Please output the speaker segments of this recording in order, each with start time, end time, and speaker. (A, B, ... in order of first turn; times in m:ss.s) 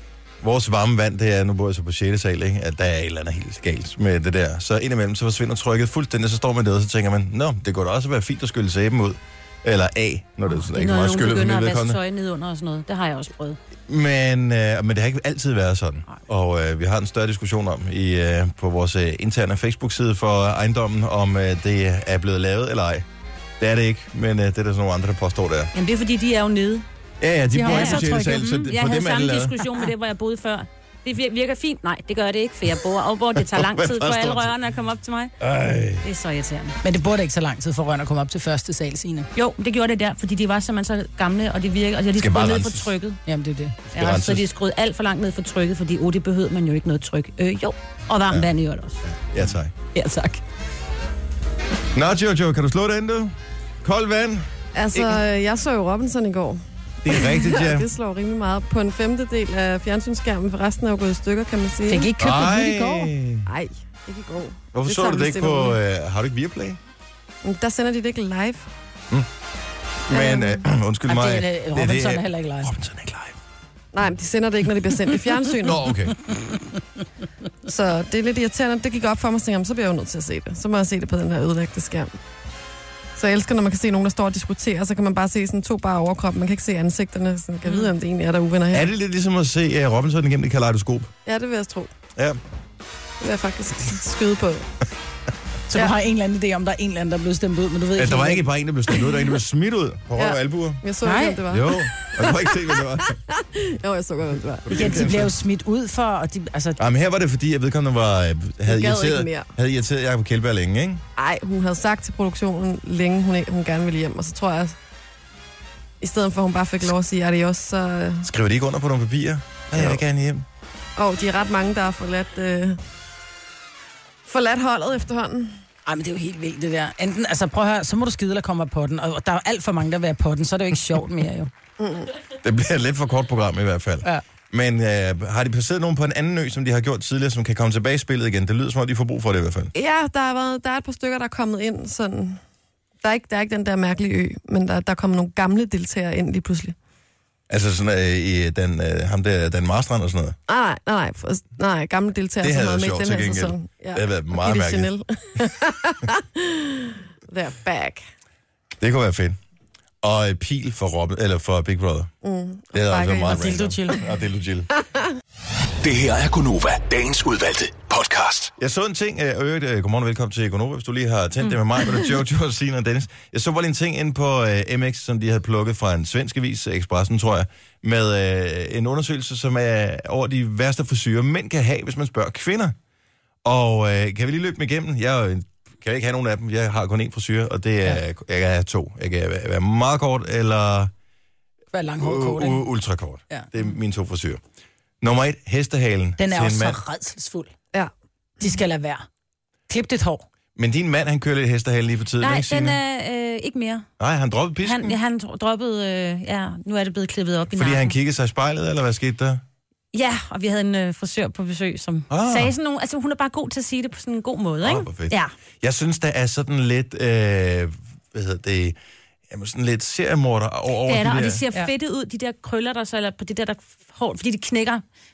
0:00.4-0:12.0 A
0:10.5-0:13.6 B
0:13.9-0:23.1 A
0:23.6-0:25.7 A
0:25.8-0:26.8 B
0:27.2-0:29.6 A
0:27.5-0:28.7 C
0:27.7-0:35.4 B
0:33.4-0:34.5 A
0:35.4-0:36.0 A
0:36.0-0:36.8 B
0:36.8-0:39.3 C
0:39.4-0:43.2 B
0:42.2-0:42.9 A
0:43.3-0:43.8 C
0:43.9-0:44.5 A
0:43.9-0:49.0 B
0:49.0-0:49.7 A
0:49.9-0:50.4 B
0:52.0-0:55.2 A
0:54.7-1:02.1 D
0:57.0-0:57.9 A
1:01.9-1:03.1 C
1:02.2-1:03.5 A
1:03.5-1:05.8 D
1:04.7-1:06.8 A
1:07.4-1:08.7 D
1:10.1-1:13.4 A
1:10.1-1:10.6 D
1:11.1-1:12.7 C
1:13.9-1:15.9 D
1:15.6-1:16.3 A
1:17.6-1:22.1 D
1:23.2-1:28.9 D
1:28.7-1:31.1 A
1:31.3-1:31.9 D
1:33.2-1:34.7 D
1:35.7-1:38.5 C
1:38.0-1:40.8 A
1:40.2-1:42.1 D
1:41.0-1:41.5 C
1:41.5-1:43.2 A
1:43.0-1:44.9 D
1:44.6-1:45.3 A
1:44.7-1:46.8 C
1:46.8-1:51.0 A
1:48.6-1:49.5 D
1:51.2-1:54.8 D
1:56.0-1:58.3 D
1:58.2-2:00.4 A
2:01.0-2:02.8 D
2:04.3-2:05.6 D
2:05.9-2:11.5 C
2:11.8-2:12.1 D
2:12.4-2:19.7 A
2:19.7-2:22.4 D
2:23.0-2:26.8 D
2:27.5-2:30.4 A
2:30.5-2:38.0 D
2:32.4-2:34.9 A
2:38.8-2:39.4 A
2:40.0-2:42.1 A
2:42.2-2:43.6 D
2:42.7-2:44.7 A
2:43.2-2:44.1 C
2:45.8-2:48.5 E
2:48.6-3:02.8 A
3:03.4-3:10.9 A
3:11.7-3:12.6 C
3:12.0-3:14.4 A
3:15.0-3:16.8 A
3:16.2-3:17.5 C
3:18.4-3:19.1 C
3:19.7-3:20.2 C
3:20.6-3:22.8 A
3:22.2-3:23.9 B
3:24.0-3:25.0 A
3:24.6-3:28.0 B
3:27.5-3:29.4 A
3:29.9-3:35.3 B
3:32.1-3:32.5 A
3:34.6-3:38.8 A
3:39.3-3:41.4 A
3:40.8-3:44.8 B